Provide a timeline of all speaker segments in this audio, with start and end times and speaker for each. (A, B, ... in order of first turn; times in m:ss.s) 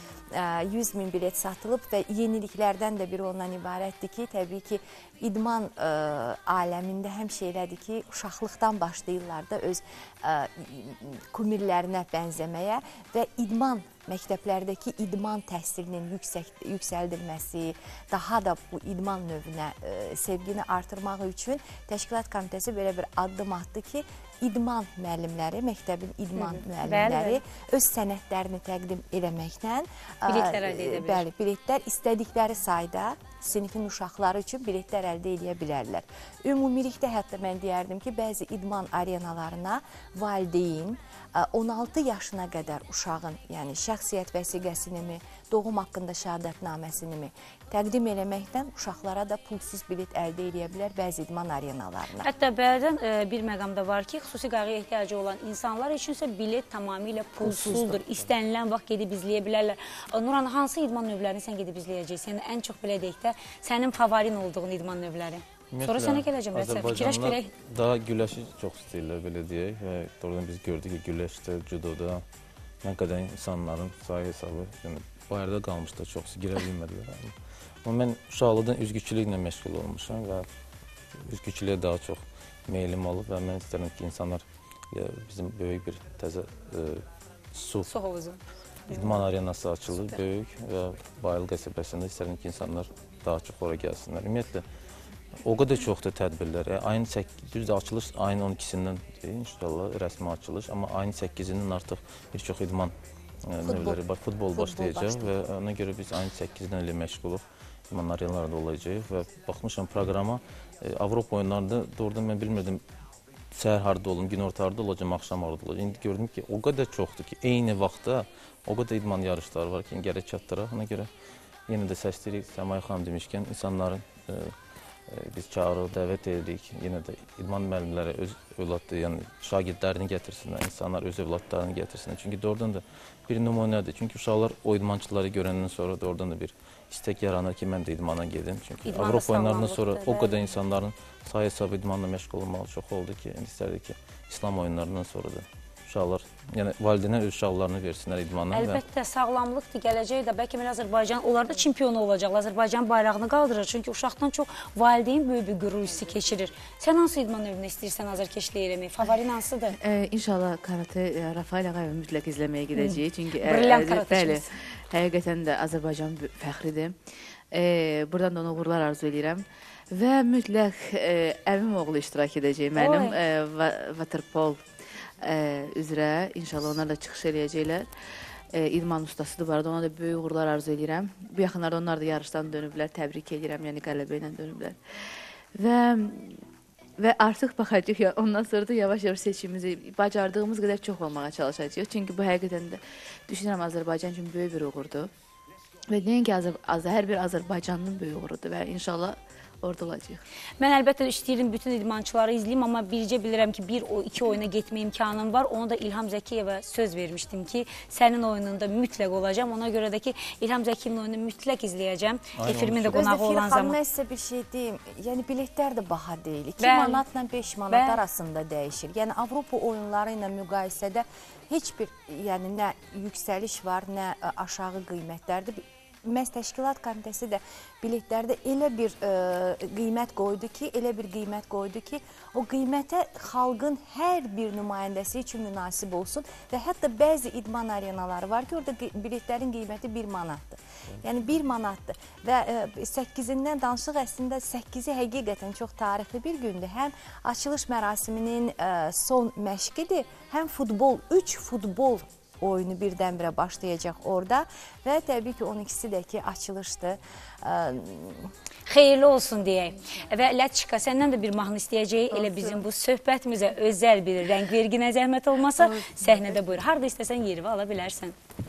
0:00.3-0:52.3 A
0:26.4-0:27.4 B
0:30.3-0:31.2 B
0:52.2-1:07.5 B
0:57.5-0:57.9 A
0:57.6-0:57.8 C
1:05.7-1:12.2 C
1:12.8-1:17.3 C
1:17.8-1:20.5 C
1:21.2-1:27.9 C
1:27.9-1:29.2 B
1:28.9-1:34.6 C
1:35.4-1:42.9 C
1:43.4-1:52.8 C
1:43.7-1:44.0 A
1:44.6-1:45.3 A
1:53.5-2:01.1 C
2:01.7-2:04.6 C
2:05.1-2:28.8 C
2:18.9-2:20.5 B
2:28.5-2:39.8 B
2:39.8-2:47.0 D
2:42.8-2:44.4 B
2:47.5-2:54.6 D
2:52.8-2:53.2 B
2:55.2-2:57.9 D
2:58.5-3:04.8 D
3:05.6-3:06.4 D
3:07.0-3:15.1 D
3:15.9-3:20.2 D
3:20.6-3:33.8 B
3:32.4-3:33.1 C
3:32.9-4:18.3 A
3:36.6-3:37.0 B
3:37.7-3:38.0 B
4:18.7-4:28.2 B
4:22.2-4:22.6 D
4:25.7-4:26.6 D